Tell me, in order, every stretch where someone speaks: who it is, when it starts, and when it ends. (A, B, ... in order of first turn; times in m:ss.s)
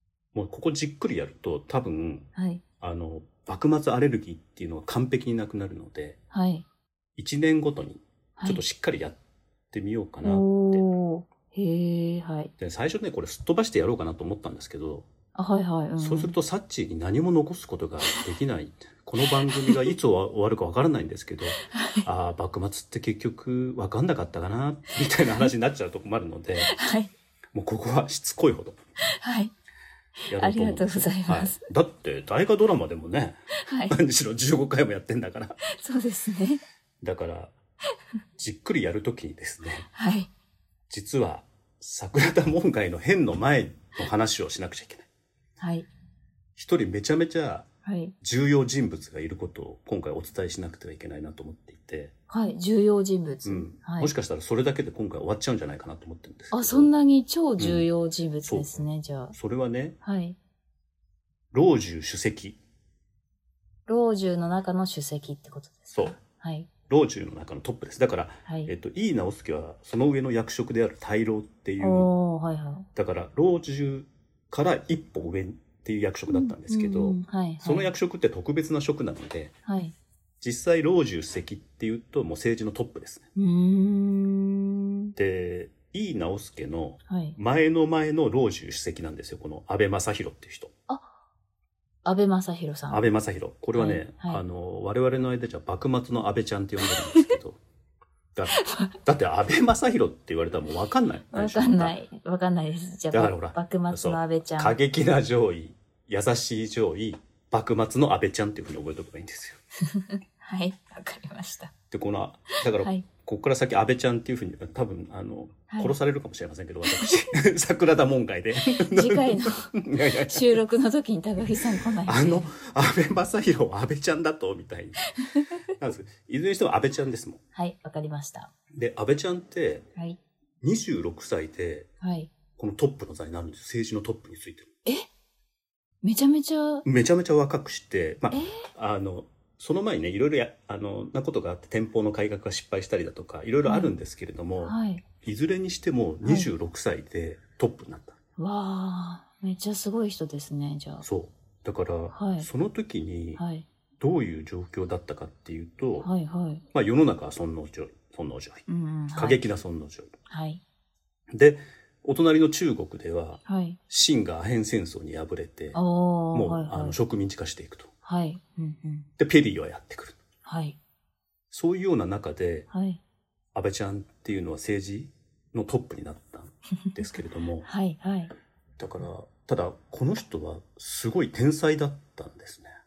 0:00.3-0:02.3 A
0:02.3-0:02.6 B
0:02.8-0:06.2 A
0:06.3-0:06.6 B
0:07.2-0:09.2 A
0:08.4-0:08.6 B
0:09.7-0:10.8 A
0:10.2-0:12.5 B
0:12.6-0:15.1 A
0:15.3-0:16.4 B
0:16.0-0:26.7 A
0:19.2-0:19.9 B
0:21.6-0:22.1 B
0:26.6-0:27.1 B
0:27.5-0:28.8 A
0:29.1-0:29.5 B
0:30.2-0:31.6 B
0:30.3-0:35.6 A
0:33.6-0:34.0 B
0:35.7-0:36.6 B
0:37.0-0:37.5 A
0:38.4-0:39.9 A
0:39.9-0:40.3 B
0:40.9-0:45.1 A
0:45.6-0:45.9 B
0:46.6-0:47.7 A
0:47.8-0:48.1 B
0:48.2-0:52.1 A
0:52.3-0:54.1 B
0:53.4-0:56.9 A
0:56.5-0:59.4 B
0:57.6-0:57.9 A
0:58.4-0:58.8 A
0:59.3-1:00.0 A
1:00.0-1:00.4 B
1:01.5-1:02.6 A
1:03.9-1:06.7 B
1:05.9-1:06.2 A
1:06.9-1:12.1 A
1:08.4-1:08.7 B
1:11.8-1:12.9 B
1:12.9-1:19.5 A
1:16.3-1:17.9 B
1:19.6-1:19.9 B
1:20.4-1:23.3 A
1:23.4-1:25.1 B
1:25.2-1:30.7 A
1:27.1-1:27.4 B
1:30.9-1:31.1 B
1:32.0-1:33.1 B
1:32.9-1:37.6 A
1:33.7-1:34.4 B
1:38.3-1:42.0 A
1:38.4-1:38.9 B
1:41.3-1:44.8 B
1:43.1-1:49.6 A
1:49.8-1:51.7 B
1:51.9-2:00.6 A
1:52.6-1:53.0 B
1:55.7-1:56.0 B
1:56.9-1:57.3 B
1:58.6-2:02.5 B
2:01.8-2:07.4 A
2:07.5-2:08.5 B
2:08.7-2:09.8 A
2:10.6-2:11.9 A
2:12.0-2:12.3 B
2:12.6-2:14.7 A
2:16.0-2:16.8 B
2:16.8-2:28.2 A
2:18.3-2:18.7 B
2:23.6-2:23.9 B
2:24.6-2:25.0 B
2:26.2-2:26.5 B
2:28.4-2:31.0 B
2:31.0-2:33.4 A
2:32.1-2:32.5 B
2:33.4-2:33.7 B
2:34.0-2:36.1 A
2:36.0-2:36.6 B
2:36.7-2:40.1 A
2:38.7-2:39.4 B
2:40.3-2:40.6 B
2:41.3-2:45.8 A
2:43.4-2:43.8 B
2:45.7-2:47.0 B
2:46.3-2:47.9 A
2:48.0-2:49.1 B
2:49.2-2:50.2 A
2:50.4-2:50.8 B
2:51.5-2:52.7 A
2:52.7-2:53.0 B
2:53.5-2:57.7 A
2:57.6-2:58.3 B
2:58.8-3:02.7 A